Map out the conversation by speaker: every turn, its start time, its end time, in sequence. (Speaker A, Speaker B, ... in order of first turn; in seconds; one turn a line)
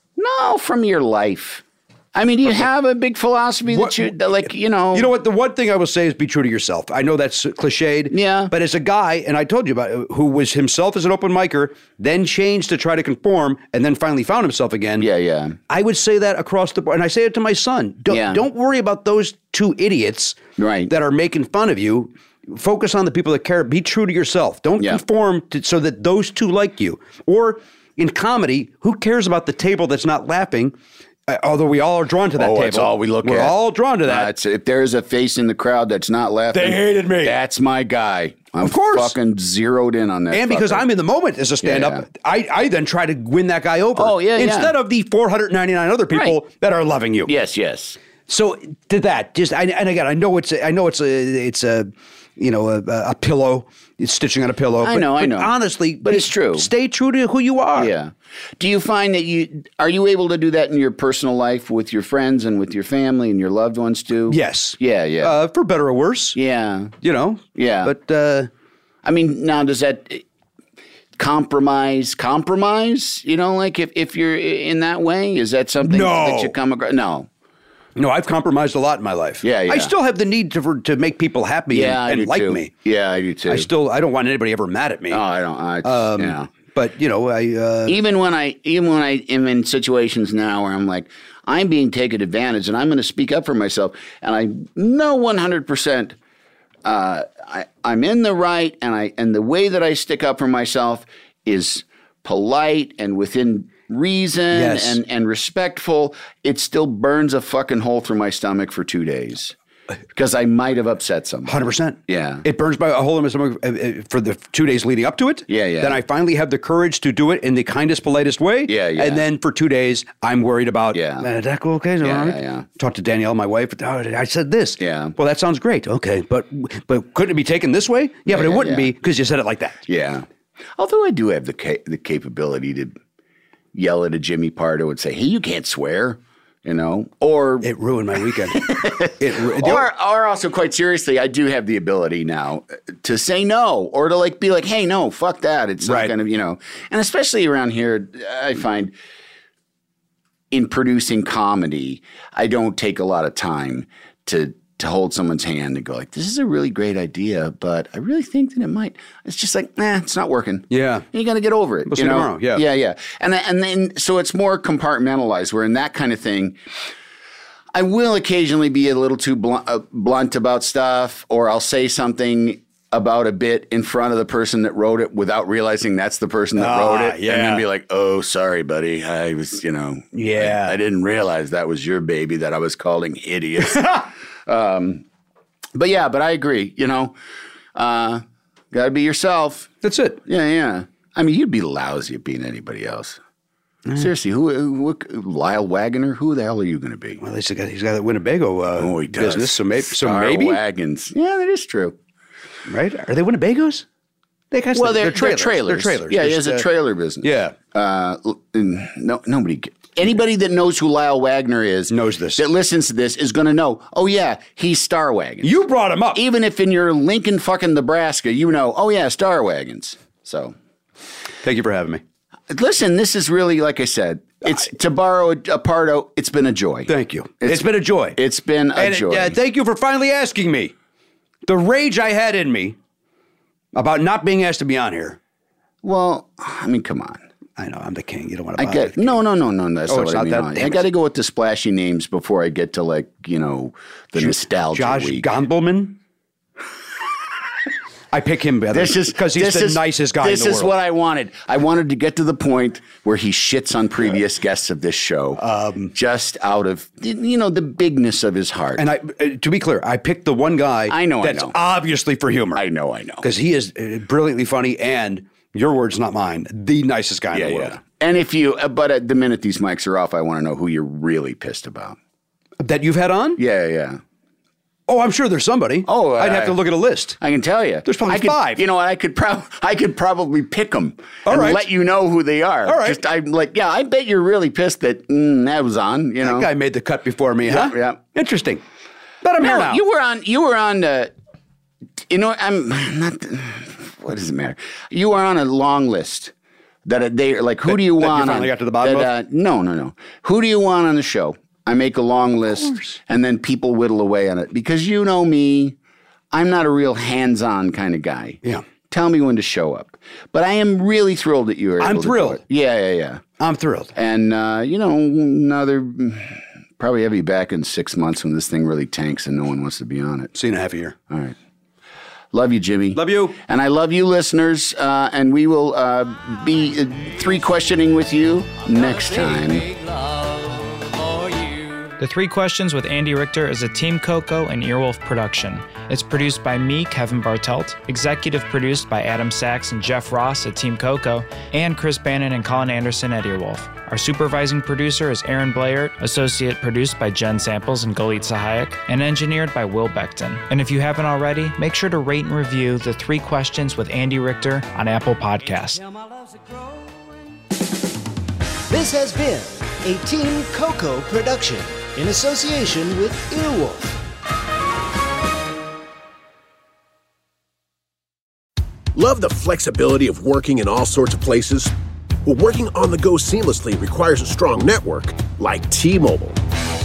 Speaker A: 0.2-5.1
Speaker B: 3.7-4.1
Speaker B: 4.9-15.1
Speaker A: 8.1-8.5
Speaker A: 15.0-15.6
Speaker B: 15.7-30.7
Speaker A: 18.1-18.4
Speaker A: 20.6-20.9
Speaker B: 31.3-34.3
Speaker A: 32.3-40.9
Speaker B: 36.5-37.4
Speaker B: 38.6-39.1
Speaker B: 40.3-47.3
Speaker A: 41.6-42.0
Speaker A: 44.0-44.7
Speaker A: 46.1-46.4
Speaker A: 47.2-48.0
Speaker B: 48.3-57.9
Speaker A: 54.8-56.7
Speaker A: 57.7-65.3
Speaker B: 64.3-66.4
Speaker A: 66.3-66.9
Speaker B: 67.0-68.5
Speaker A: 67.5-67.9
Speaker A: 69.0-70.2
Speaker A: 71.2-77.3
Speaker B: 75.8-76.5
Speaker B: 78.0-82.7
Speaker A: 79.4-79.9
Speaker A: 81.7-83.7
Speaker B: 83.5-85.2
Speaker A: 85.1-86.5
Speaker B: 85.8-88.0
Speaker A: 87.9-96.2
Speaker A: 96.8-109.5
Speaker B: 104.5-105.0
Speaker A: 110.1-112.4
Speaker B: 111.5-129.8
Speaker A: 115.5-116.0
Speaker A: 118.7-119.2
Speaker A: 120.9-121.2
Speaker A: 122.0-122.7
Speaker A: 124.8-125.1
Speaker A: 128.3-128.9
Speaker A: 129.9-133.0
Speaker A: 133.7-137.7
Speaker B: 137.6-139.9
Speaker A: 138.3-148.9
Speaker B: 145.8-146.1
Speaker A: 150.5-166.6
Speaker B: 160.7-161.1
Speaker B: 161.9-162.6
Speaker A: 167.7-185.0
Speaker B: 176.6-177.6
Speaker B: 180.1-180.8
Speaker A: 185.7-187.2
Speaker A: 187.7-189.7
Speaker B: 189.8-190.2
Speaker A: 190.2-193.2
Speaker A: 193.9-197.2
Speaker B: 197.2-200.6
Speaker A: 198.8-202.0
Speaker B: 202.7-203.8
Speaker B: 204.5-206.7
Speaker A: 204.7-215.6
Speaker B: 207.2-207.6
Speaker B: 211.9-212.4
Speaker B: 215.4-216.2
Speaker A: 216.1-220.5
Speaker B: 221.4-222.0
Speaker A: 222.5-229.4
Speaker B: 226.9-228.2
Speaker B: 228.8-230.7
Speaker B: 231.4-232.8
Speaker B: 233.7-235.2
Speaker A: 235.8-237.2
Speaker B: 237.6-239.2
Speaker A: 238.6-245.3
Speaker B: 239.9-240.8
Speaker B: 244.2-246.0
Speaker B: 248.1-250.7
Speaker A: 248.7-255.4
Speaker B: 255.4-255.9
Speaker A: 255.9-258.8
Speaker B: 258.8-262.6
Speaker A: 260.9-261.6
Speaker A: 262.5-263.2
Speaker B: 263.2-267.8
Speaker A: 267.3-272.0
Speaker B: 272.6-273.4
Speaker A: 273.4-274.0
Speaker B: 274.9-277.2
Speaker A: 275.9-276.6
Speaker A: 277.2-286.5
Speaker B: 277.8-278.6
Speaker B: 281.2-281.6
Speaker B: 282.6-283.0
Speaker B: 286.2-288.6
Speaker A: 287.4-288.0
Speaker B: 289.2-289.8
Speaker A: 289.4-291.1
Speaker A: 292.1-296.3
Speaker A: 296.8-305.8
Speaker B: 297.6-299.1
Speaker B: 302.6-302.9
Speaker A: 306.3-313.2
Speaker B: 311.8-312.4
Speaker B: 313.4-313.9
Speaker A: 313.9-320.3
Speaker B: 320.3-320.9
Speaker A: 321.1-321.4
Speaker A: 322.3-329.6
Speaker B: 322.9-323.4
Speaker C: 328.6-332.0
Speaker D: 332.0-355.8
Speaker C: 355.5-357.5
Speaker C: 358.7-364.0
Speaker E: 368.9-371.7
Speaker E: 372.2-376.4